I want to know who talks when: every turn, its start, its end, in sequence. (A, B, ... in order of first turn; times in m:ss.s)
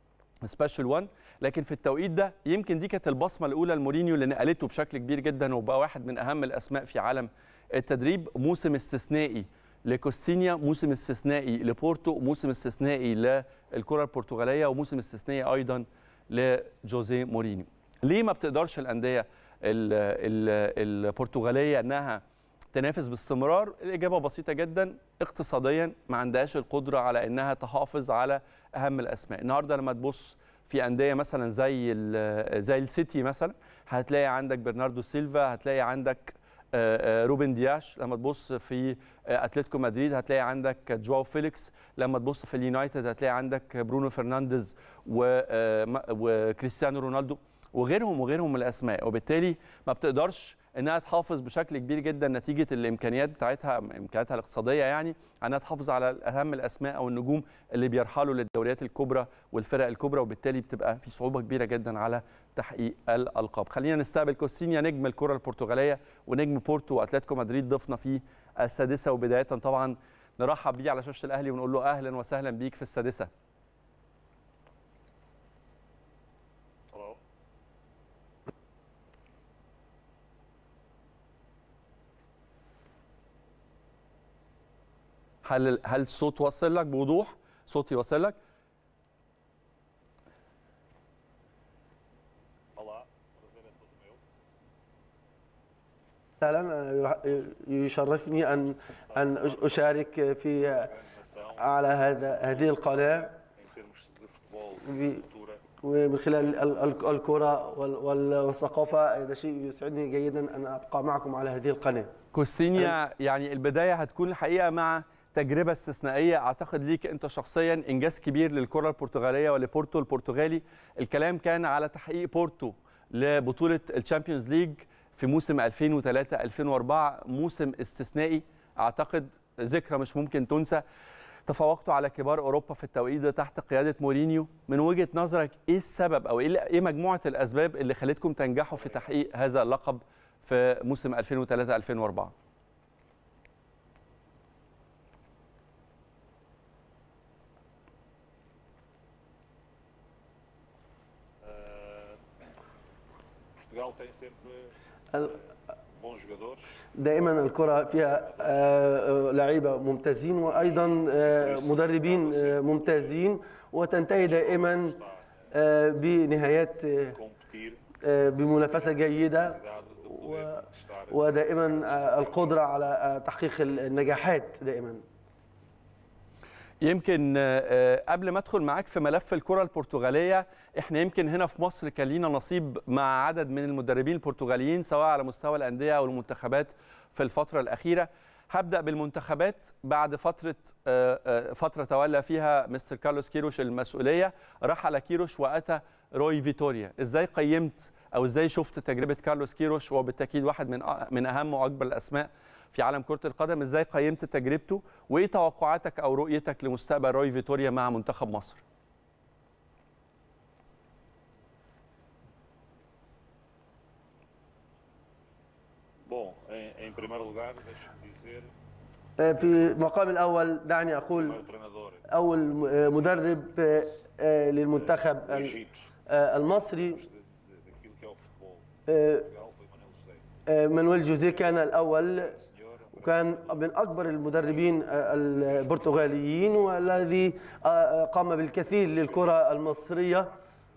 0:00.4-0:22.2 A
0:22.7-1:13.3 A
1:16.9-1:17.2 B
1:25.4-1:28.4 A
1:32.8-1:34.2 B
1:36.4-1:40.9 C
1:38.8-1:40.1 B
1:40.8-1:45.6 B
1:41.6-1:43.4 C
1:44.8-1:45.2 C
1:45.8-1:52.1 C
1:52.3-2:10.8 A
2:11.5-2:22.3 A
2:31.4-2:32.2 B
2:33.6-2:35.5 B
2:35.1-2:35.4 C
2:36.0-2:36.7 B
2:36.9-2:45.0 C
2:38.0-2:38.7 B
2:40.5-2:43.2 B
2:44.1-2:45.5 B
2:45.5-2:47.2 C
2:47.1-2:47.8 B
2:48.0-2:49.6 C
2:49.3-2:52.6 B
2:50.1-2:55.0 C
2:56.8-3:28.6 A
3:36.1-3:38.5 B
3:39.2-3:41.4 C
3:41.1-3:44.0 B
3:42.1-3:47.0 C
3:44.7-3:45.9 B
3:46.4-3:48.7 B
3:48.9-3:49.3 C
3:49.2-3:50.2 B
3:50.5-3:52.4 C
3:51.2-3:51.4 B
3:52.0-3:57.0 B
3:53.0-4:00.4 C
3:58.8-4:00.2 B